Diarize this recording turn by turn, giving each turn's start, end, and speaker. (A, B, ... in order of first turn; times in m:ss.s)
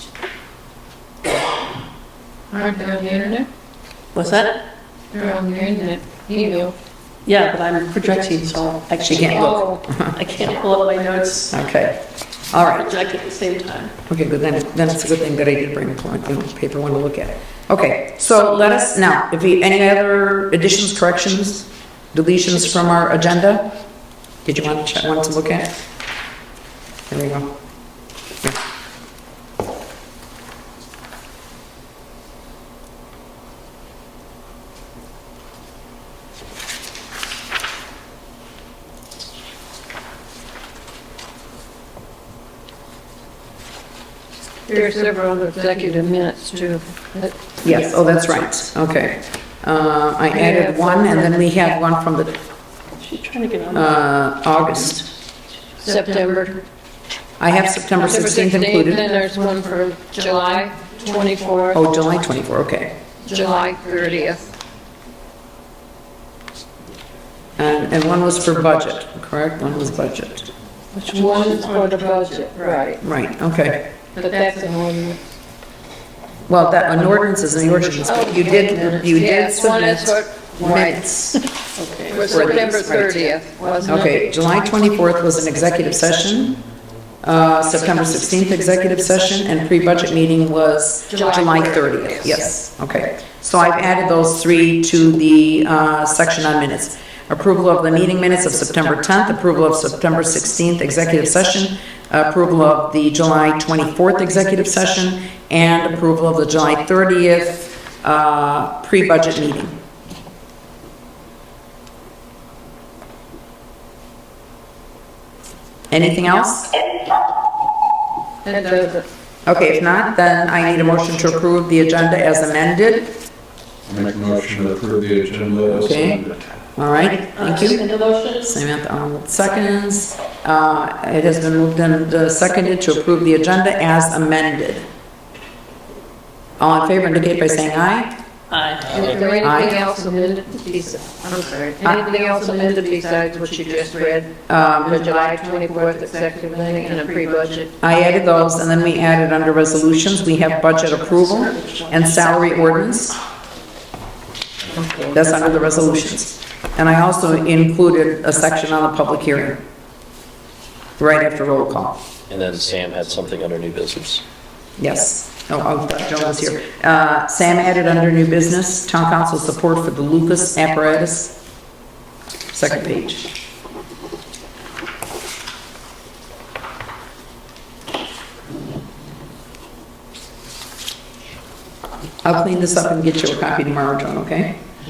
0:02.5-0:03.5 A
0:04.2-0:04.6 B
0:05.1-0:06.8 A
0:07.2-0:11.6 B
0:09.0-0:10.2 C
0:09.4-0:09.8 A
0:11.5-0:12.0 C
0:12.5-0:12.9 C
0:12.6-0:13.9 B
0:14.1-0:23.7 C
0:24.4-0:25.7 C
0:27.1-0:27.6 C
0:44.7-0:47.3 A
0:47.6-0:52.4 C
0:50.3-0:51.2 A
0:53.0-0:54.0 B
0:53.7-0:55.0 C
0:55.8-0:56.6 A
0:57.4-0:59.0 C
0:58.0-1:01.8 A
1:01.7-1:03.0 C
1:03.2-1:04.5 A
1:07.6-1:10.5 C
1:11.0-1:13.0 A
1:11.1-1:11.9 B
1:13.0-1:13.8 C
1:14.1-1:15.2 A
1:16.5-1:21.4 C
1:18.0-1:21.0 A
1:21.8-1:22.5 B
1:22.1-1:24.2 A
1:22.3-1:23.1 C
1:23.8-1:26.6 C
1:27.2-1:49.8 C
1:31.1-1:32.4 A
1:55.9-1:56.7 C
1:58.4-1:59.1 A
1:59.4-2:03.2 C
2:03.9-2:06.5 D
2:05.7-2:06.2 C
2:06.8-2:07.8 C
2:07.0-2:08.5 B
2:08.4-2:14.9 C
2:16.6-2:18.2 C
2:18.5-2:19.2 B
2:18.9-2:27.7 A
2:19.4-2:19.8 C
2:24.5-2:25.1 C
2:27.8-2:33.2 C
2:31.6-2:32.7 B
2:34.7-2:35.2 A
2:35.1-2:39.6 C
2:41.0-2:42.0 C
2:42.3-2:44.2 E
2:44.8-2:51.4 C
2:52.5-2:53.3 C
3:02.2-3:04.6 C